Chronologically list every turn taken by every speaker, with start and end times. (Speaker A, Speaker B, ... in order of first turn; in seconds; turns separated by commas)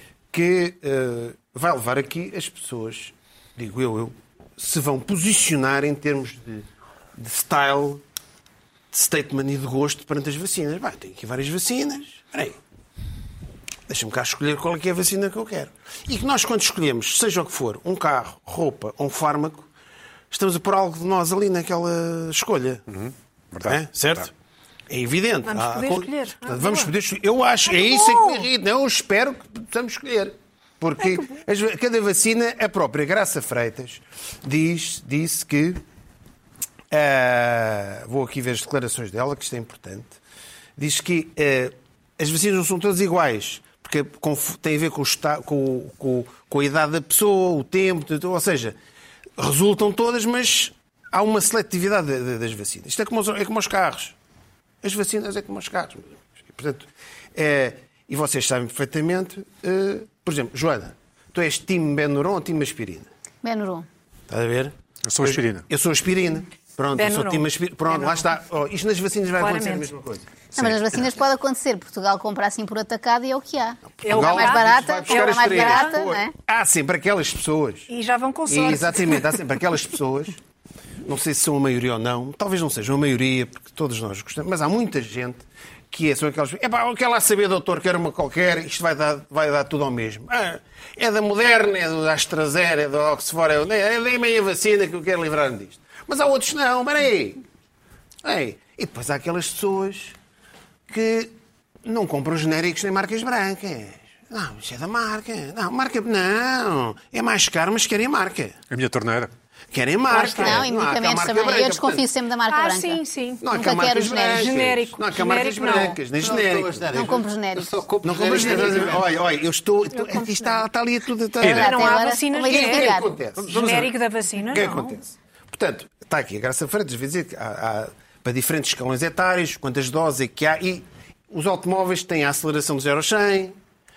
Speaker A: 0.3-8.0, Speaker A: 8.9-12.6, Speaker A: 13.9-19.7, Speaker A: 20.3-22.8, Speaker B: 22.9-24.3, Speaker A: 23.6-24.3, Speaker A: 24.9-35.8, Speaker C: 25.4-26.9, Speaker C: 27.6-28.4, Speaker C: 31.0-31.4, Speaker A: 36.9-40.2, Speaker A: 40.8-48.8, Speaker A: 49.4-54.1, Speaker A: 54.8-63.1, Speaker D: 63.4-63.9, Speaker A: 64.3-70.3, Speaker B: 65.0-65.6, Speaker C: 67.0-68.2, Speaker C: 69.4-69.9, Speaker D: 70.5-76.3, Speaker A: 74.0-77.9, Speaker C: 74.0-76.0, Speaker C: 77.9-79.3, Speaker A: 78.5-80.4, Speaker A: 81.0-97.4, Speaker A: 98.2-100.1, Speaker A: 100.9-108.5, Speaker B: 108.7-109.3, Speaker A: 109.7-112.1, Speaker C: 110.1-110.6, Speaker D: 110.3-114.5, Speaker C: 112.5-113.5, Speaker A: 113.4-117.1, Speaker C: 114.3-116.0, Speaker E: 116.2-119.1, Speaker D: 116.9-117.7, Speaker A: 118.0-123.9, Speaker C: 119.9-120.6, Speaker B: 121.4-121.7, Speaker D: 121.4-123.1, Speaker C: 121.5-125.0, Speaker B: 123.4-123.9, Speaker A: 124.5-133.6